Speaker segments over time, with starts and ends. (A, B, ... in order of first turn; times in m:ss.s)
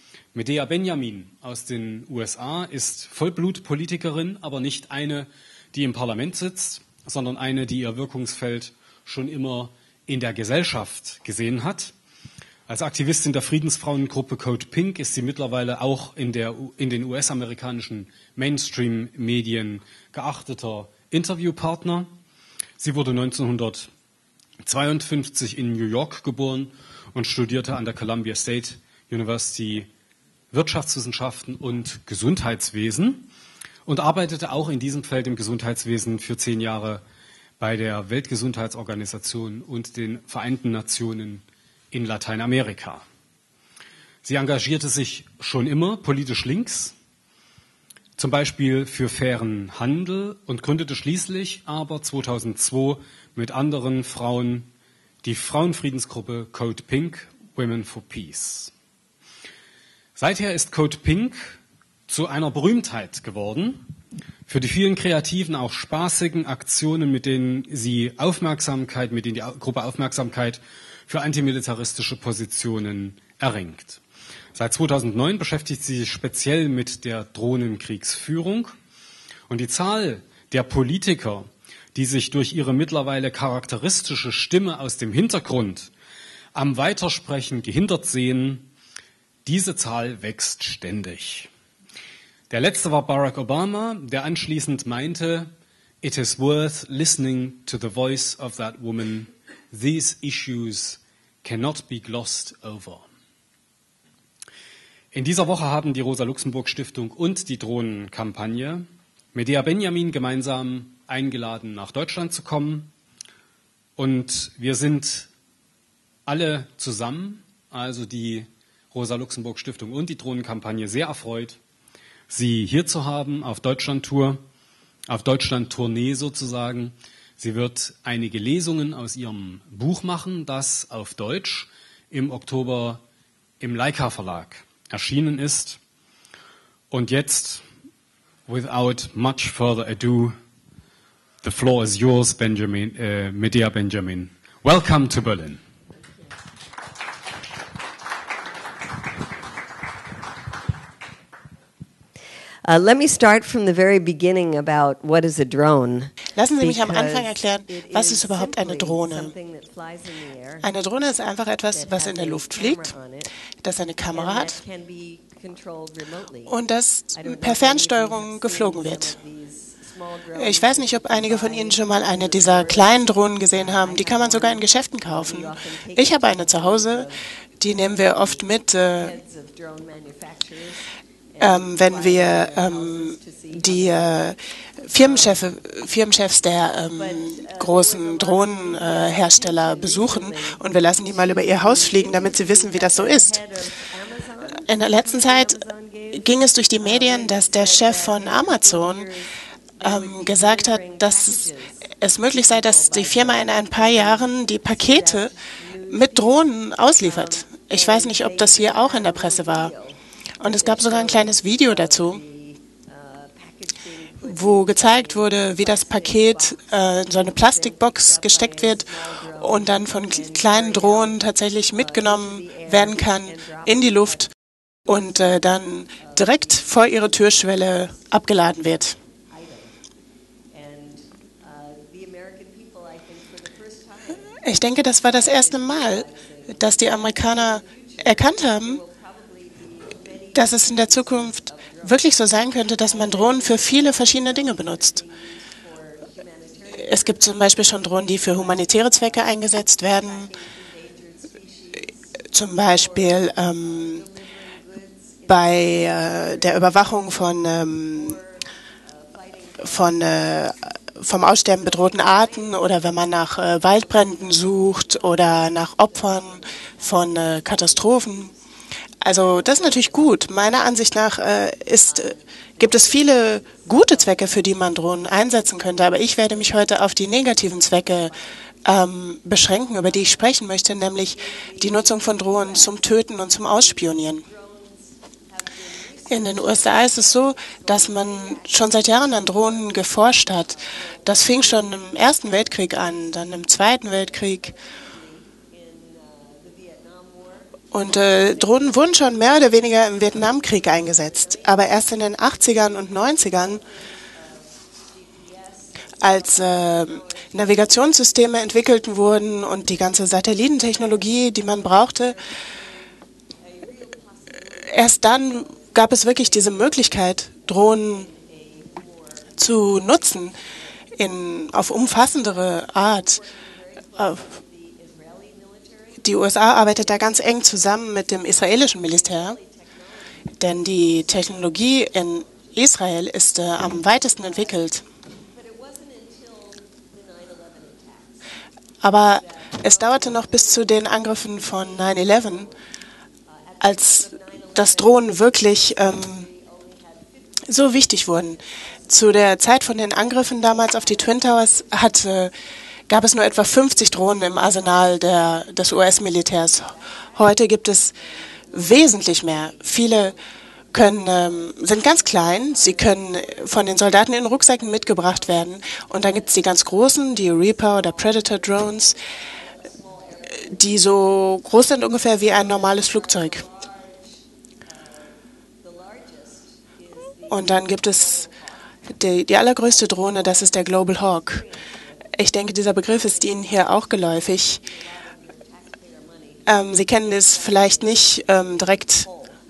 0:00.3-0:11.9 A
0:12.7-0:22.1 A
0:22.8-0:23.9 A
0:24.6-0:29.9 A
0:30.5-0:33.3 A
0:33.8-0:37.0 A
0:37.6-0:43.0 A
0:44.2-0:46.9 A
0:48.2-0:54.7 A
0:55.2-0:58.7 A
1:00.2-1:01.6 A
1:02.1-1:03.8 A
1:04.5-1:14.0 A
1:14.5-1:18.7 A
1:19.5-1:25.9 A
1:26.5-1:28.7 A
1:29.4-1:31.5 A
1:32.5-1:35.5 A
1:36.0-1:43.0 A
1:45.1-1:52.9 A
1:54.0-1:55.3 A
1:56.2-2:01.6 A
2:02.3-2:04.4 A
2:05.1-2:13.0 A
2:13.6-2:15.8 A
2:16.9-2:17.6 A
2:18.5-2:20.4 A
2:21.4-2:25.6 A
2:32.6-2:40.7 B
2:36.4-2:39.3 C
2:40.6-2:42.9 C
2:41.7-2:43.3 B
2:43.6-2:44.6 C
2:44.1-2:46.5 B
2:46.5-2:49.2 C
2:47.1-3:05.5 B
2:50.4-2:57.1 C
2:57.6-2:59.2 C
3:01.4-3:13.4 C
3:06.9-3:26.5 B
3:14.6-3:15.6 C
3:16.1-3:19.1 C
3:19.8-3:21.4 C
3:22.0-3:25.3 C
3:25.9-3:29.7 C
3:27.0-3:41.2 B
3:30.4-3:32.2 C
3:34.2-3:44.3 C
3:41.7-3:44.2 B
3:44.8-3:49.0 C
3:44.9-3:45.2 B
3:46.0-3:48.0 B
3:49.3-3:49.8 B
3:50.5-4:20.5 B
3:54.4-3:58.8 C
4:00.3-4:05.0 C
4:06.7-4:10.3 C
4:12.3-4:14.0 C
4:15.3-4:18.2 C
4:19.6-4:28.3 C
4:21.2-4:28.4 B
4:29.0-4:38.1 C
4:29.1-4:30.5 B
4:31.8-4:38.3 B
4:38.6-4:44.2 C
4:39.8-4:40.3 B
4:41.0-4:59.5 B
4:46.1-4:54.5 C
4:57.7-5:03.6 C
5:00.7-5:08.5 B
5:06.0-5:12.2 C
5:10.7-5:19.4 B
5:14.5-5:18.1 C
5:19.4-5:20.3 C
5:20.3-5:20.9 B
5:21.0-5:23.2 C
5:21.6-5:32.5 B
5:24.0-5:24.2 C
5:26.0-5:29.4 C
5:30.4-5:34.8 C
5:34.2-5:34.7 B
5:35.3-5:38.2 B
5:38.8-5:42.5 C
5:39.0-5:42.6 B
5:43.3-5:51.9 B
5:43.6-5:46.3 C
5:47.5-5:52.3 C
5:52.9-5:57.9 C
5:53.7-6:00.2 B
5:58.5-6:00.2 C
6:00.7-6:09.0 C
6:00.8-6:18.7 B
6:10.4-6:13.4 C
6:17.3-6:18.3 C
6:18.9-6:21.4 C
6:19.6-6:29.4 B
6:22.1-6:24.6 C
6:26.4-6:29.1 C